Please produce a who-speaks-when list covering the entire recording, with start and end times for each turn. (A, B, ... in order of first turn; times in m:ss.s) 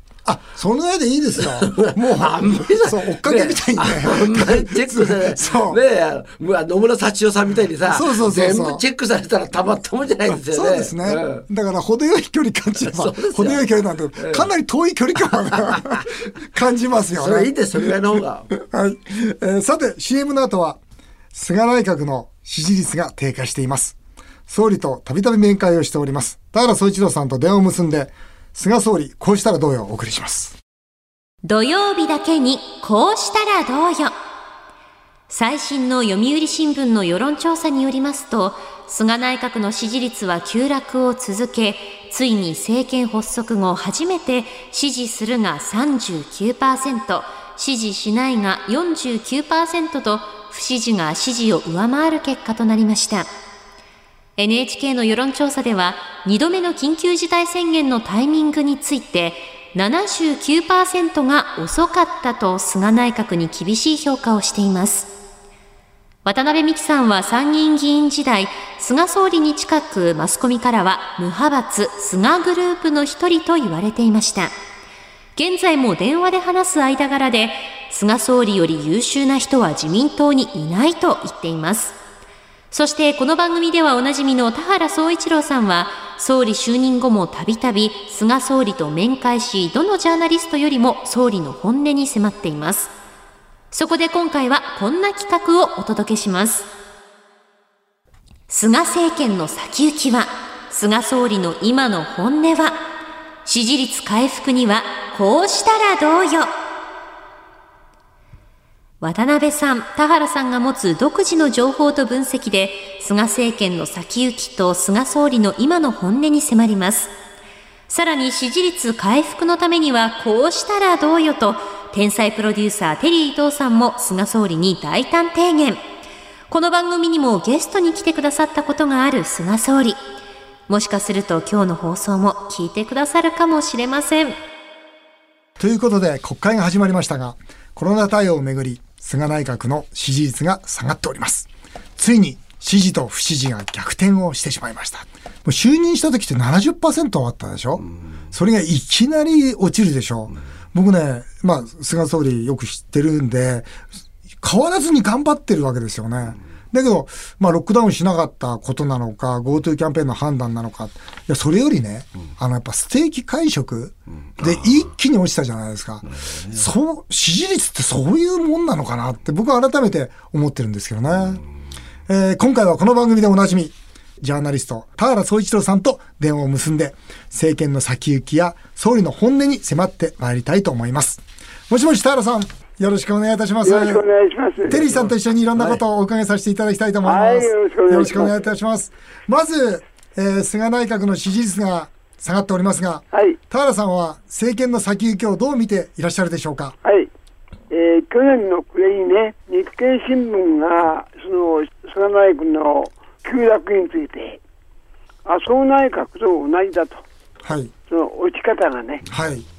0:00.2-0:05.8 A
0:01.4-0:11.4 B
0:07.9-0:08.8 A
0:10.5-0:17.9 A
0:12.8-0:14.5 B
0:15.5-0:16.1 B
0:17.1-0:18.5 B
0:18.5-0:20.8 A
0:21.3-0:24.0 A
0:24.5-0:30.6 A
0:31.4-0:34.2 C
0:35.3-0:53.3 C
0:54.4-1:05.1 C
1:06.2-1:14.5 C
1:15.4-1:22.0 C
1:22.7-1:32.9 C
1:33.7-1:36.7 C
1:38.5-1:42.8 C
1:43.4-1:46.5 C
1:49.0-1:57.1 C
1:57.9-2:05.8 C
2:06.5-2:10.0 C
2:10.7-2:14.4 C
2:15.6-2:33.7 A
2:34.4-2:51.4 A
2:44.4-2:44.9 B
2:46.1-2:46.7 B
2:52.1-3:04.0 A
3:03.6-3:04.8 D
3:04.7-3:16.8 A
3:07.0-3:08.4 D
3:13.1-3:13.4 D
3:16.8-3:17.1 D
3:17.7-3:24.4 D
3:25.2-3:27.0 D
3:27.4-3:27.7 A
3:27.9-3:29.0 D
3:29.1-3:29.4 A